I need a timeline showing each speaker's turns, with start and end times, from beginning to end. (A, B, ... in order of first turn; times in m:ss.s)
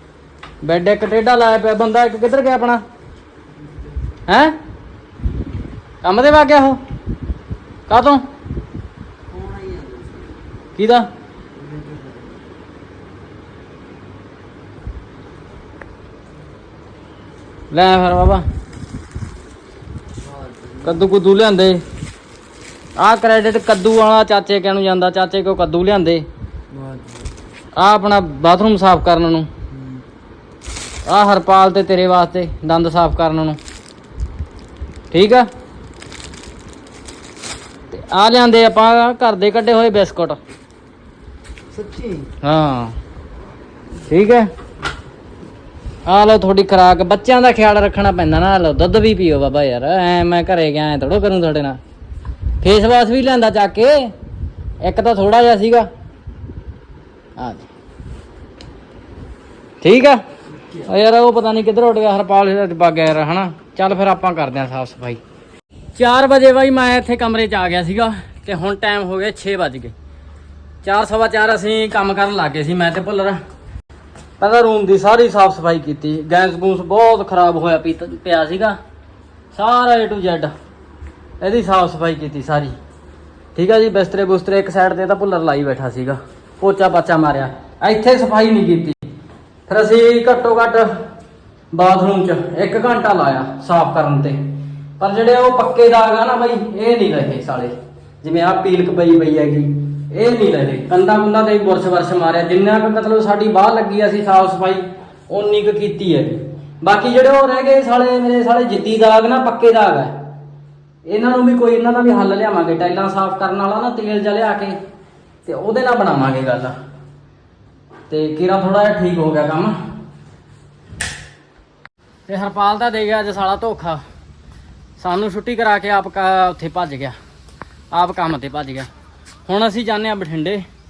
0:00.6-0:02.8 A
0:04.3-0:04.6 A
0:06.0-0:06.8 A
0:07.9-0:08.2 A
0:09.3-0:10.2 B
0:10.8-0:11.1 A
0:11.6-0:12.2 B
0:17.7-0:18.4 A
0:20.8-0:21.8 A
0:23.0-0:26.2 A
0:26.9-0:27.2 B
0:27.8-0:29.5 A
0:31.1-0:33.6 A
0:35.1-0:35.5 A
0:37.9-0:40.4 A
0:41.8-0:42.2 B
0:42.4-0:43.0 A
0:44.0-0:44.5 A
0:46.0-0:51.8 A
0:52.6-0:54.1 A
0:54.8-0:55.9 A
0:57.4-0:57.7 A
0:59.8-1:00.2 A
1:00.7-1:05.2 A
1:06.0-1:09.9 A
1:10.8-1:13.4 A
1:14.4-1:18.8 A
1:19.5-1:20.5 A
1:21.4-1:22.7 A
1:23.5-1:29.1 A
1:29.7-1:31.0 A
1:31.7-1:50.2 A
1:51.0-1:54.8 A
1:55.4-1:56.7 A
1:58.1-1:59.8 A
2:02.3-2:04.0 A
2:05.0-2:07.2 A
2:07.9-2:08.9 A
2:09.5-2:10.6 A